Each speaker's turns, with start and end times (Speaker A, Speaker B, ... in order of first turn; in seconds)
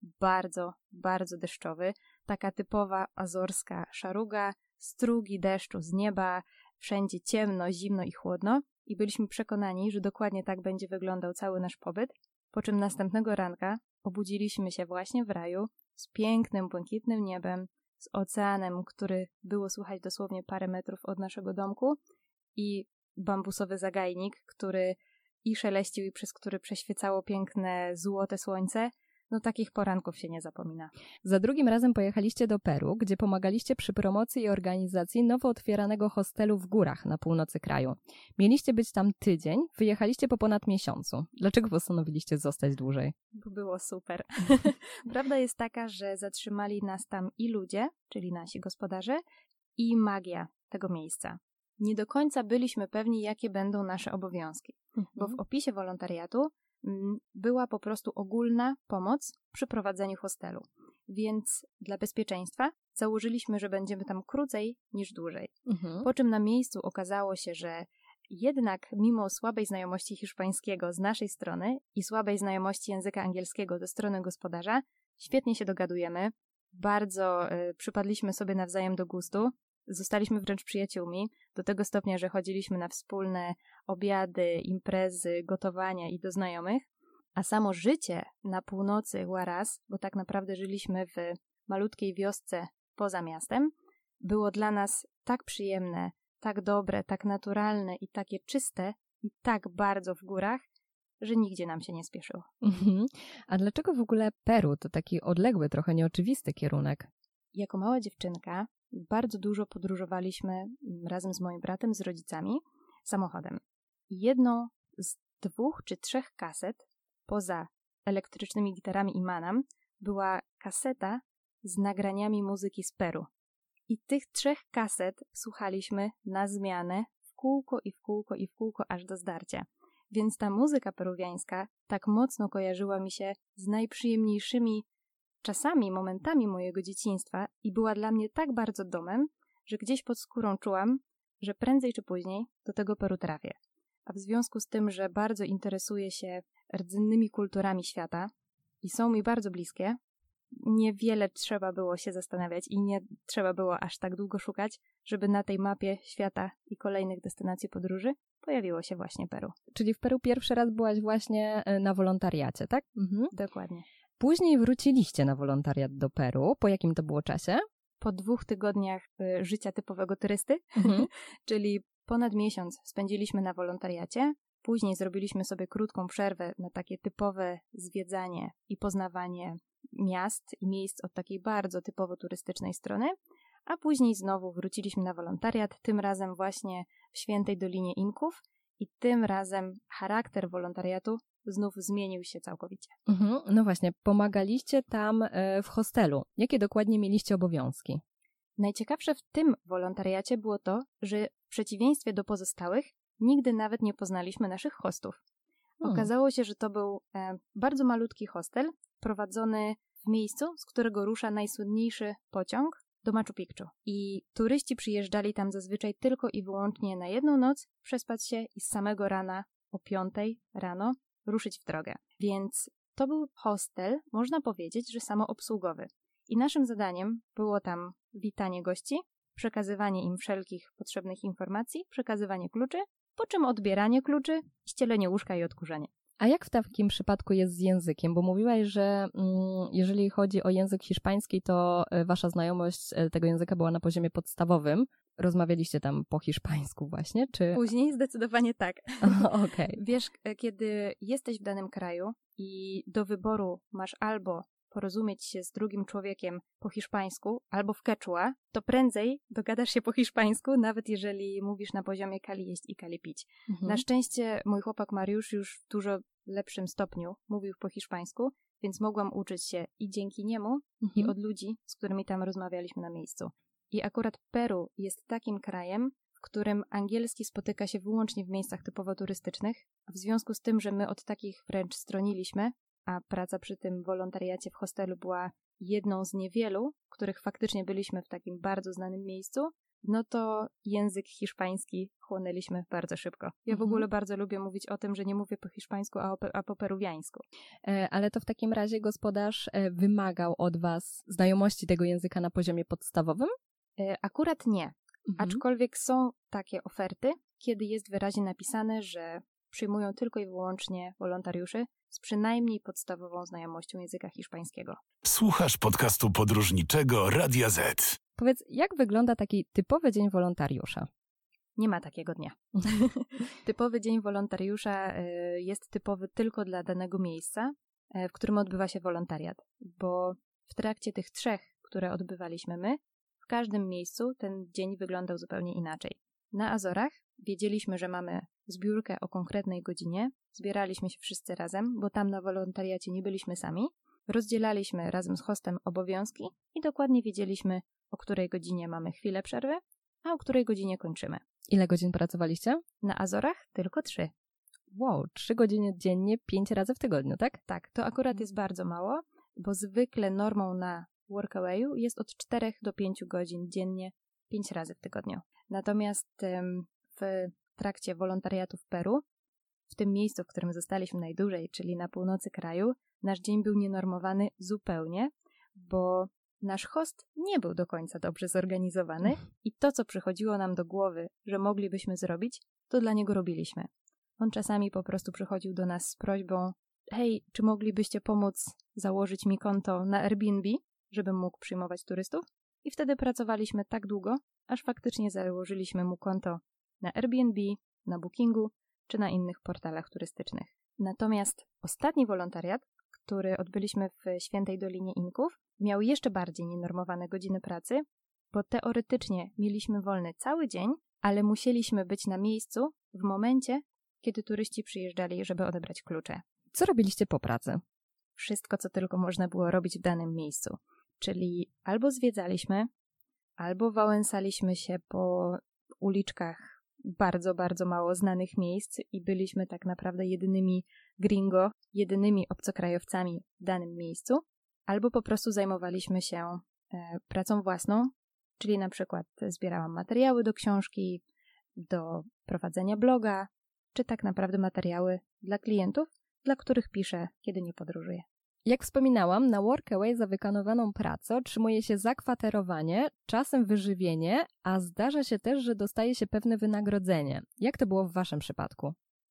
Speaker A: 0.2-22.0, 22.6-30.9, 43.3-49.2, 49.8-93.7, 94.2-100.6, 101.2-102.5, 107.5-123.3, 123.9-134.8, 135.4-143.6, 144.1-148.3, 148.8-150.0, 150.5-159.6, 163.3-163.8, 168.0-183.2, 183.7-192.9, 198.6-205.2, 205.8-235.9, 247.5-297.2, 303.8-314.8, 321.6-351.2, 352.8-354.1, 357.5-369.0, 369.7-416.2, 418.2-422.7, 423.4-441.0, 441.6-448.1
Speaker B: 31.2-43.1, 65.7-66.1, 102.6-107.1, 159.7-163.3, 164.2-167.6, 170.8-171.1, 193.1-198.0, 205.8-206.1, 236.2-247.6, 249.0-249.8, 263.5-263.8, 270.8-271.1, 293.5-293.9, 297.6-303.3, 305.1-305.4, 318.2-320.9, 351.5-352.6, 354.7-357.4, 416.5-417.6, 448.5-458.8
Speaker C: 315.0-318.0